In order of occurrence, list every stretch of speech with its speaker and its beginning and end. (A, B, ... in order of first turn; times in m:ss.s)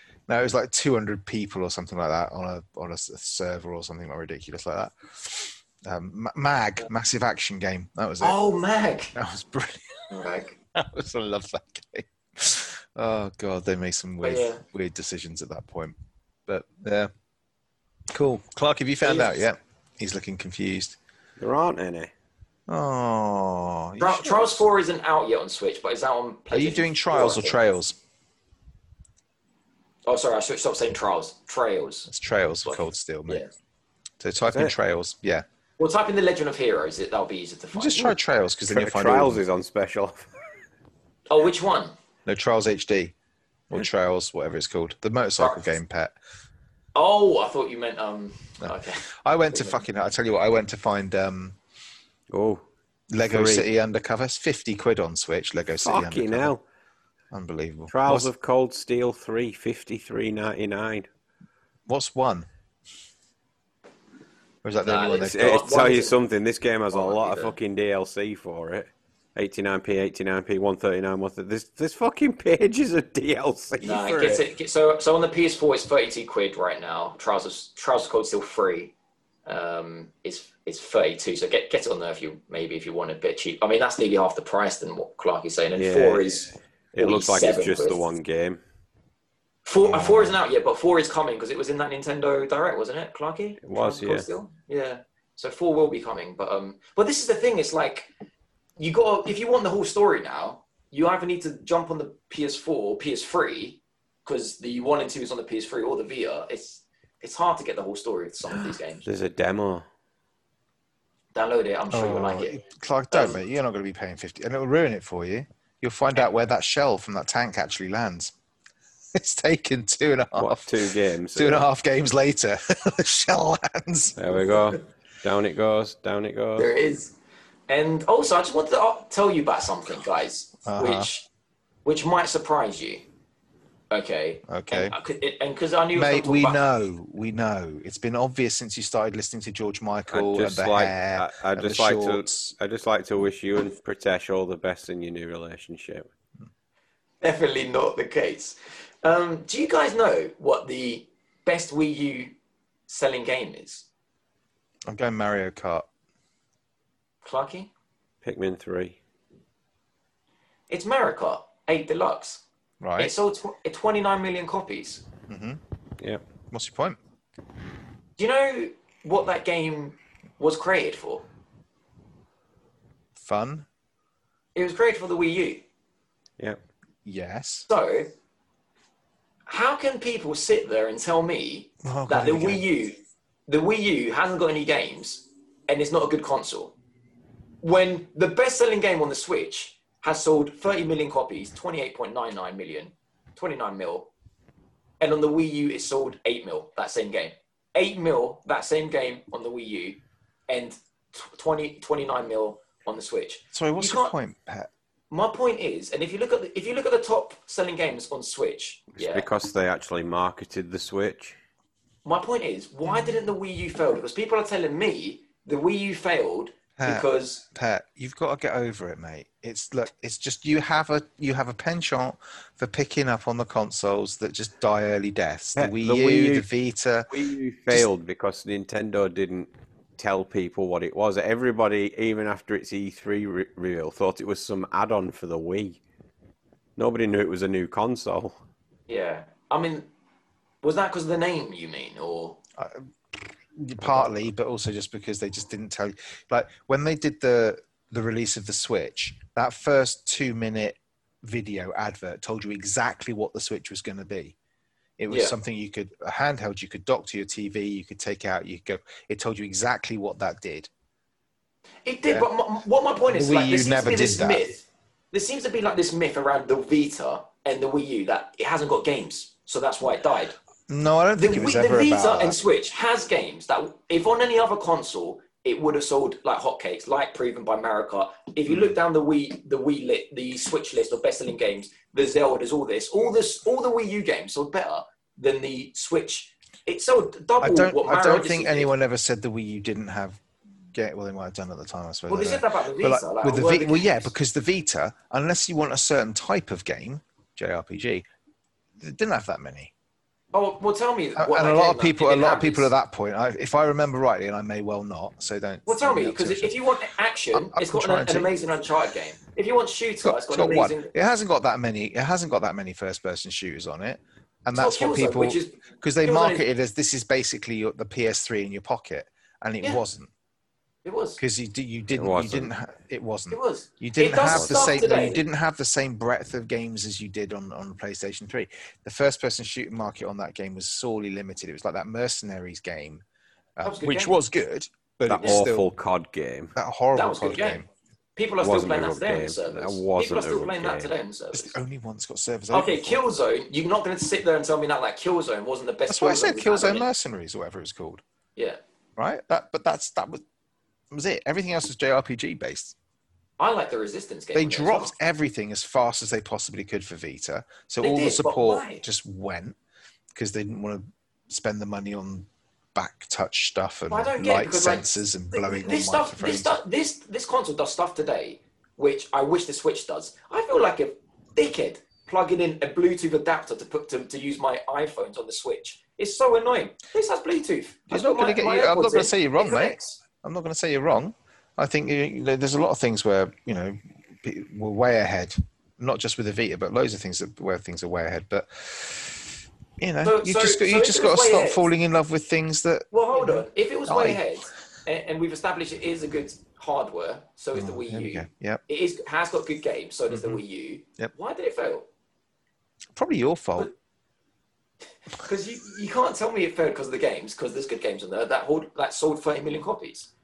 0:00.3-0:08.4 A
0:08.2-0:09.1 B
0:09.1-0:10.1 A
0:10.1-0:10.6 B
0:10.7-0:16.0 A
0:14.2-0:14.6 B
0:16.5-0:17.1 A
0:18.1-0:21.0 A
0:19.0-0:19.4 B
0:21.4-0:22.1 C
0:22.7-0:24.6 A
0:24.0-0:27.6 B
0:26.5-0:28.0 A
0:30.0-0:32.1 B
0:32.1-0:33.4 A
0:32.6-0:33.5 B
0:34.2-0:35.4 A
0:35.8-0:38.2 B
0:37.7-0:39.4 A
0:38.7-0:40.3 C
0:41.3-0:41.9 B
0:42.3-0:43.1 A
0:43.7-0:46.2 A
0:45.4-0:45.7 B
0:46.9-0:49.8 B
0:48.6-0:51.6 A
0:52.3-0:52.6 C
0:53.1-0:56.5 A
0:53.3-0:53.7 C
0:55.8-0:56.6 C
0:57.3-0:58.3 A
0:57.9-1:01.1 C
1:01.9-1:02.5 A
1:04.6-1:05.7 A
1:04.8-1:06.2 B
1:05.1-1:14.4 C
1:06.9-1:07.6 B
1:13.8-1:18.9 B
1:19.4-1:28.0 B
1:25.8-1:28.6 C
1:29.6-1:38.1 B
1:29.8-1:30.4 A
1:33.6-1:34.2 C
1:38.8-1:49.0 B
1:49.0-1:49.8 C
1:51.3-1:52.6 B
1:51.9-1:58.3 A
1:53.1-1:53.4 B
1:59.1-2:00.8 A
2:00.4-2:01.7 C
2:01.3-2:04.2 A
2:04.2-2:06.7 C
2:06.6-2:07.1 B
2:07.7-2:11.3 B
2:10.6-2:11.1 A
2:11.8-2:13.0 B
2:13.9-2:16.6 B
2:14.5-2:14.9 A
2:15.9-2:22.5 A
2:20.1-2:26.1 C
2:27.2-2:32.3 B
2:32.9-2:33.8 B
2:34.9-2:35.9 A
2:37.2-2:37.7 B
2:38.2-2:39.0 C
2:40.7-2:42.4 B
2:42.8-2:43.1 A
2:43.0-2:45.0 B
2:45.3-2:45.6 A
2:46.5-2:47.0 A
2:48.2-2:51.2 B
2:53.2-2:53.7 A
2:54.5-2:55.6 B
2:57.0-2:57.7 A
2:57.7-2:58.1 B
2:59.5-3:06.8 B
3:01.8-3:02.6 A
3:07.6-3:14.1 B
3:15.0-3:24.1 B
3:23.5-3:24.7 A
3:25.1-3:29.3 B
3:29.0-3:31.4 C
3:32.0-3:37.4 B
3:32.9-3:33.1 A
3:36.8-3:47.1 A
3:45.6-3:46.4 C
3:47.1-3:55.8 C
3:56.8-3:58.4 C
3:58.9-3:59.9 B
4:00.6-4:02.4 B
4:02.6-4:02.8 A
4:03.5-4:14.4 A
4:15.0-4:20.7 A
4:15.1-4:15.3 B
4:21.8-4:30.4 B
4:23.1-4:24.4 A
4:30.7-4:32.4 A
4:31.2-4:48.7 B
4:38.5-4:38.8 A
4:47.4-4:50.2 A
4:50.7-4:58.0 A
4:52.1-4:54.1 B
4:58.8-4:59.7 A
5:00.3-5:02.7 B
5:01.2-5:06.6 A
5:05.6-5:10.9 B
5:07.3-5:08.3 A
5:10.0-5:20.1 A
5:14.5-5:16.4 B
5:20.8-5:21.2 B
5:21.2-5:33.0 A
5:21.9-5:22.5 C
5:23.3-5:25.2 B
5:24.3-5:24.7 C
5:33.6-5:35.7 A
5:33.6-5:34.1 B
5:35.1-5:36.5 C
5:36.5-5:37.7 A
5:36.9-5:37.6 B
5:38.2-5:41.5 B
5:38.4-5:40.9 C
5:41.3-5:43.0 A
5:42.5-5:46.9 B
5:45.9-5:48.0 A
5:49.0-5:50.2 A
5:50.9-5:52.8 A
5:53.4-5:54.9 B
5:54.3-5:59.6 A
5:57.8-5:58.8 B
6:00.1-6:06.6 A
6:03.9-6:20.0 B
6:17.9-6:34.2 A
6:30.0-6:31.6 B
6:32.9-6:41.9 B
6:37.6-6:38.6 A
6:40.1-6:40.4 A
6:42.9-6:43.7 A
6:45.1-6:50.1 B